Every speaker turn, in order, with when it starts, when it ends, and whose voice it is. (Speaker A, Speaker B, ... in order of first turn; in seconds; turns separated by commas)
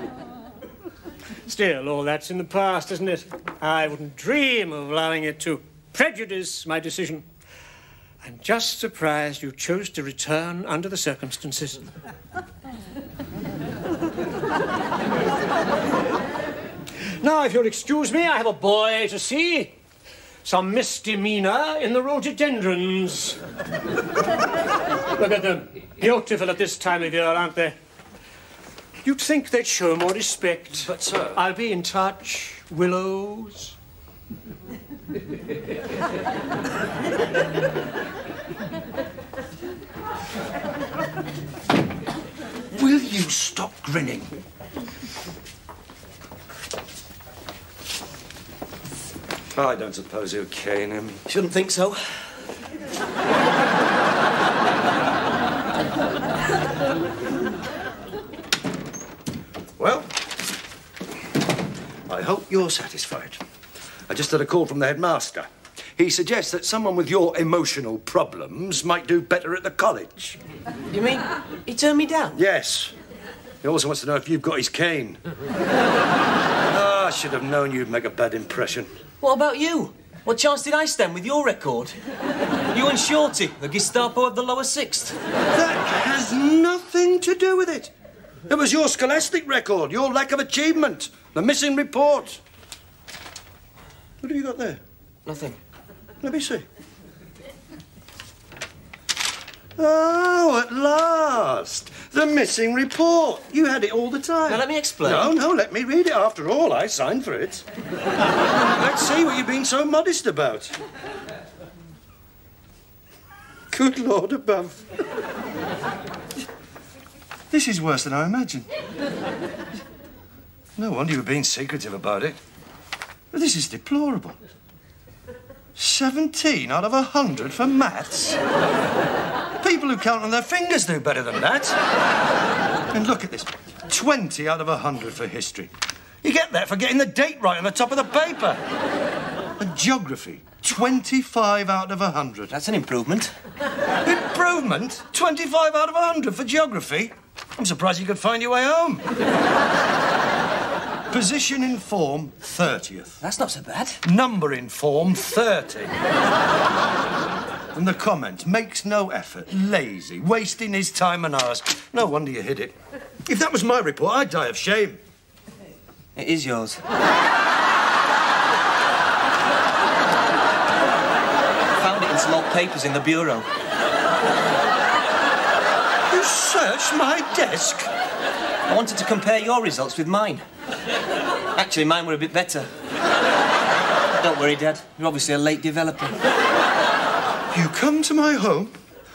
Speaker A: 1.4-7.2, Speaker A: 8.2-11.8, Speaker A: 17.2-19.7, Speaker A: 20.4-23.4, Speaker A: 25.1-27.8, Speaker A: 29.0-33.7, Speaker B: 30.8-31.4, Speaker B: 42.7-44.3, Speaker B: 49.5-51.2, Speaker C: 51.3-52.4, Speaker B: 59.8-60.1, Speaker B: 62.1-63.4, Speaker B: 64.1-70.4, Speaker C: 70.9-72.4, Speaker B: 72.3-72.9, Speaker B: 73.6-75.2, Speaker B: 76.7-78.9, Speaker C: 79.2-81.9, Speaker C: 82.7-85.2, Speaker B: 85.5-87.9, Speaker B: 88.5-92.4, Speaker B: 94.2-94.8, Speaker C: 95.2-95.6, Speaker B: 96.2-96.6, Speaker B: 99.8-107.6, Speaker C: 104.5-105.3, Speaker B: 108.5-110.8, Speaker B: 113.7-114.8, Speaker B: 117.5-118.7, Speaker B: 120.8-122.4, Speaker B: 123.3-124.4, Speaker B: 125.7-128.4, Speaker B: 129.6-131.8, Speaker B: 132.9-138.6, Speaker B: 139.6-142.5, Speaker C: 142.5-143.3, Speaker B: 144.0-149.1, Speaker B: 151.1-153.2, Speaker C: 153.2-154.0, Speaker B: 154.0-156.0, Speaker B: 157.7-162.7, Speaker B: 163.2-165.0, Speaker C: 166.2-166.8, Speaker C: 171.7-173.5, Speaker B: 176.1-177.9, Speaker C: 178.7-180.4, Speaker C: 181.5-182.7, Speaker C: 184.2-186.2, Speaker B: 187.5-188.7